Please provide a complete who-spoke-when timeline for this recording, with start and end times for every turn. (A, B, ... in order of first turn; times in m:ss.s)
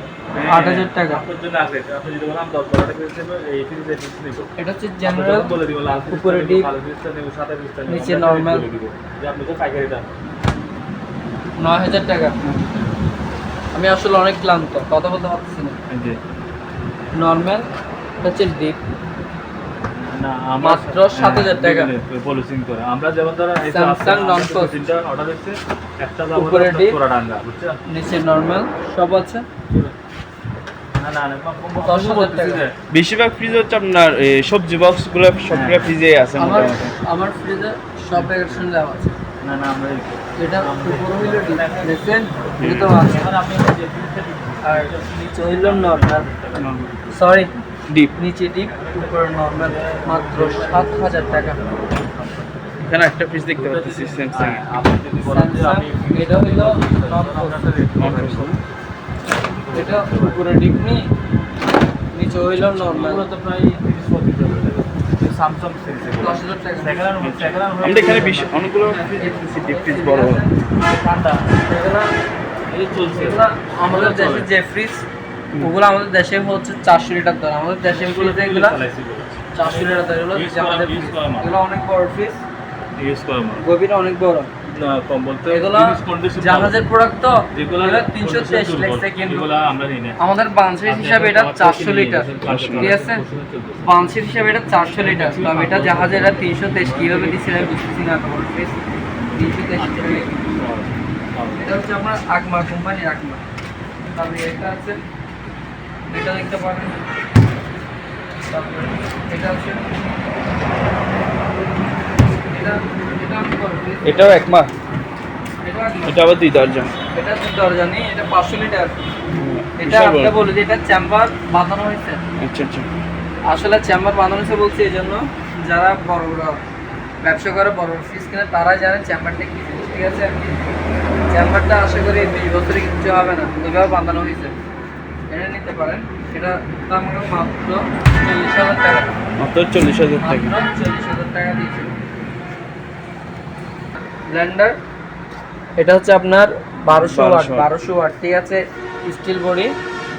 0:00.4-0:04.5 A
0:00.5-0:01.2 B
0:04.6-0:06.7 B
0:05.0-0:10.1 A
0:07.9-0:08.7 B
0:11.6-0:12.4 B
0:12.4-0:12.7 C
0:13.7-0:15.8 B
0:15.9-0:16.2 A
0:17.1-0:17.7 B
0:18.2-0:18.8 B
0:20.0-0:27.8 A
0:20.6-0:21.9 B
0:23.7-0:24.9 B
0:26.4-0:27.0 B
0:27.9-0:29.5 B
0:29.7-0:30.0 A
0:31.0-0:32.8 A
0:31.8-0:32.6 B
0:32.9-0:36.9 C
0:35.5-0:36.0 A
0:36.4-0:39.2 B
0:38.2-0:38.7 A
0:39.4-0:42.0 A
0:40.4-0:43.3 B
0:42.6-0:42.9 C
0:43.0-0:47.7 A
0:44.6-0:46.3 B
0:46.6-0:46.9 C
0:47.1-0:47.5 B
0:47.9-0:48.2 C
0:48.2-0:51.6 B
0:48.7-0:52.8 A
0:52.9-0:54.6 C
0:53.5-0:58.6 A
0:55.2-0:57.6 B
0:58.0-0:58.6 C
0:59.3-1:00.4 A
0:59.7-1:01.1 B
1:02.1-1:03.2 B
1:02.5-1:03.0 C
1:02.9-1:09.5 A
1:06.2-1:07.0 B
1:07.2-1:10.5 C
1:09.2-1:10.6 B
1:10.8-1:11.5 A
1:11.7-1:12.1 B
1:12.7-1:14.5 A
1:13.1-1:15.0 B
1:15.6-1:18.8 B
1:17.9-1:21.5 A
1:19.5-1:22.4 B
1:23.0-1:23.7 A
1:23.6-1:24.5 B
1:24.7-1:26.8 A
1:25.5-1:29.5 B
1:27.5-1:30.2 A
1:30.2-1:33.2 B
1:30.9-1:33.9 A
1:32.5-1:33.0 C
1:33.8-1:38.8 B
1:34.9-1:37.8 A
1:39.3-1:41.7 A
1:39.4-1:40.3 B
1:41.6-1:43.4 B
1:44.1-1:45.0 B
1:46.1-1:47.0 B
1:48.5-1:50.0 B
1:52.5-1:54.4 B
1:54.0-1:54.7 C
1:55.6-1:56.2 B
1:56.1-1:56.9 C
1:57.1-1:59.0 B
1:59.3-2:00.4 C
1:59.8-2:02.2 B
2:02.4-2:02.9 C
2:03.5-2:06.6 B
2:07.2-2:10.6 B
2:11.3-2:14.6 B
2:15.3-2:19.1 B
2:19.4-2:20.6 C
2:20.2-2:21.9 B
2:24.0-2:24.8 B
2:25.8-2:29.7 B
2:26.9-2:27.7 C